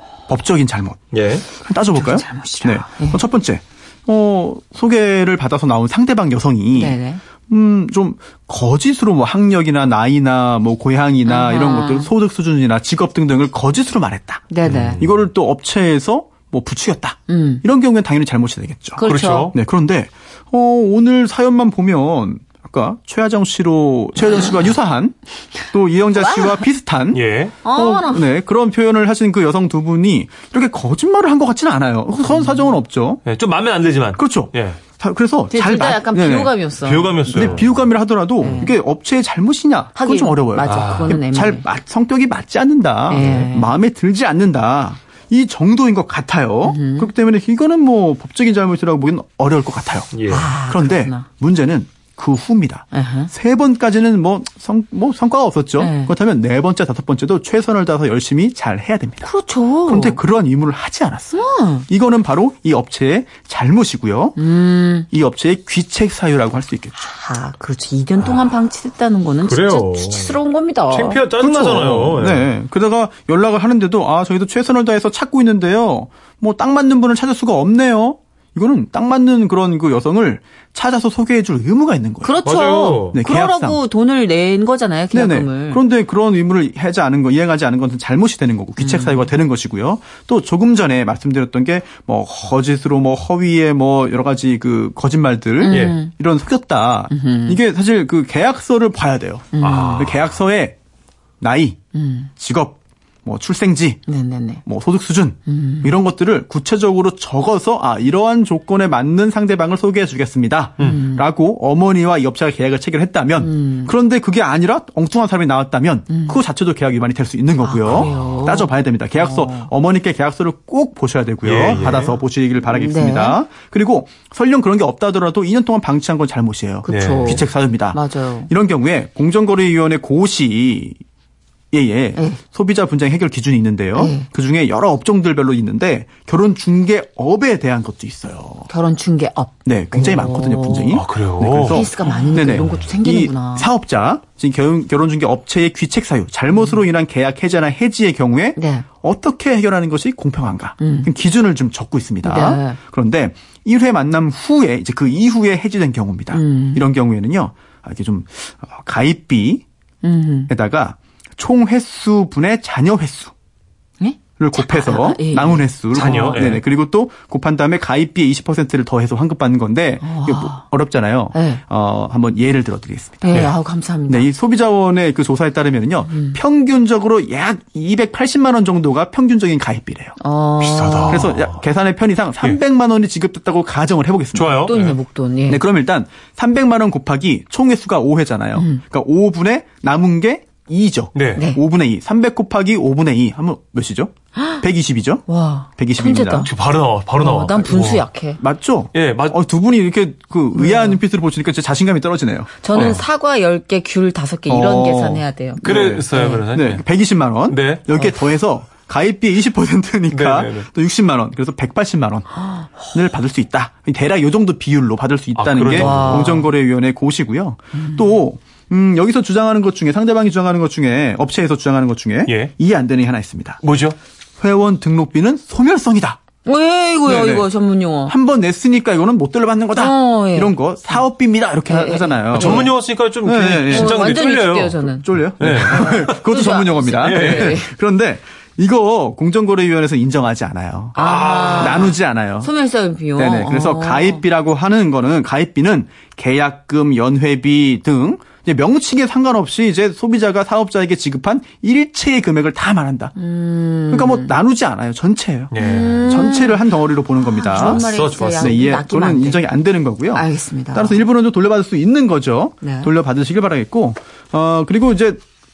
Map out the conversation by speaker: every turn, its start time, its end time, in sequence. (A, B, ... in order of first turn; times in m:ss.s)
0:00.3-0:01.0 A
0:01.1-0:01.4 B
0:01.5-0:25.1 A
0:01.9-0:03.2 C
0:06.7-0:07.2 C
0:11.2-0:12.1 C
0:14.5-0:15.0 C
0:14.6-0:15.2 B
0:17.3-0:17.6 C
0:19.0-0:19.5 C
0:19.0-0:19.5 B
0:25.7-0:33.2 A
0:26.2-0:26.6 C
0:27.1-0:27.6 B
0:27.6-0:28.3 C
0:32.3-0:32.8 C
0:33.2-0:34.8 B
0:34.2-0:36.6 A
0:35.5-0:37.6 C
0:36.8-0:37.9 B
0:37.3-0:59.3 A
0:38.4-0:38.8 C
0:40.0-0:41.6 C
0:40.6-0:41.2 B
0:43.1-0:43.7 C
0:46.6-0:47.1 C
0:50.1-0:50.5 B
0:50.3-0:51.2 C
0:52.9-0:53.3 C
0:55.8-0:56.1 C
0:59.2-1:00.2 C
0:59.8-1:04.4 A
1:01.3-1:01.9 C
1:04.4-1:05.1 C
1:05.1-1:06.9 A
1:07.0-1:11.2 C
1:09.4-1:12.5 B
1:11.4-1:22.4 A
1:22.2-1:25.8 C
1:22.4-1:23.2 B
1:23.1-1:23.8 A
1:25.1-1:40.8 A
1:28.8-1:29.3 C
1:35.6-1:36.1 C
1:35.7-1:36.0 B
1:37.1-1:37.6 C
1:39.5-1:40.0 C
1:39.6-1:40.3 B
1:41.4-1:41.8 A
1:41.9-1:42.3 C
1:42.4-1:44.0 A
1:44.1-1:44.6 C
1:44.6-2:11.0 A
1:45.5-1:45.9 C
1:50.8-1:51.2 C
1:53.4-1:53.9 C
1:56.1-1:56.4 C
1:57.6-1:59.7 C
1:57.9-1:58.1 B
2:01.4-2:02.2 B
2:02.6-2:03.4 C
2:06.8-2:08.5 C
2:06.9-2:07.4 B
2:11.7-2:18.7 A
2:14.0-2:14.3 C
2:18.7-2:21.0 C
2:19.6-2:39.6 A
2:20.9-2:22.8 B
2:21.6-2:23.7 C
2:28.6-2:28.9 C
2:30.8-2:31.1 C
2:32.2-2:32.8 C
2:36.3-2:36.8 C
2:40.0-2:40.5 C
2:40.5-2:43.3 A
2:44.0-2:46.4 C
2:44.4-2:53.4 A
2:45.9-2:46.6 B
2:50.0-2:50.6 C
2:51.3-2:51.6 C
2:53.2-2:54.3 C
2:54.1-3:00.2 A
2:56.1-2:56.4 C
3:00.2-3:01.3 C
3:00.6-3:01.6 B
3:01.1-3:04.8 A
3:04.3-3:05.0 B
3:04.7-3:05.6 C
3:05.5-3:15.2 A
3:08.6-3:08.8 C
3:11.1-3:11.4 B
3:14.4-3:14.6 C
3:15.3-3:16.5 C
3:15.8-3:16.5 A
3:16.4-3:18.0 B
3:17.2-3:18.4 C
3:18.4-3:22.7 A
3:18.9-3:19.4 B
3:20.5-3:21.0 C
3:22.6-3:26.4 C
3:22.7-3:23.0 B
3:24.5-3:43.6 A
3:25.6-3:26.8 B
3:27.5-3:27.9 B
3:30.1-3:30.7 B
3:32.4-3:32.9 C
3:35.4-3:36.4 B
3:35.7-3:36.5 C
3:37.8-3:38.2 C
3:42.3-3:42.5 B
3:43.6-3:44.0 B
3:44.4-3:46.2 A
3:46.4-3:48.1 C
3:47.1-3:47.5 A
3:48.0-3:52.7 A
3:49.8-3:50.6 C
3:51.6-3:52.7 C
3:52.3-3:54.8 B
3:53.2-3:54.0 A
3:53.7-3:57.7 C
3:54.8-4:02.5 A
3:55.4-3:57.6 B
4:00.9-4:04.2 C
4:01.0-4:01.9 B
4:03.2-4:13.2 A
4:13.2-4:14.4 C
4:13.9-4:25.2 A
4:15.5-4:16.1 B
4:15.6-4:16.6 C
4:17.2-4:19.5 C
4:17.5-4:18.6 B
4:20.1-4:21.0 C
4:22.6-4:22.9 C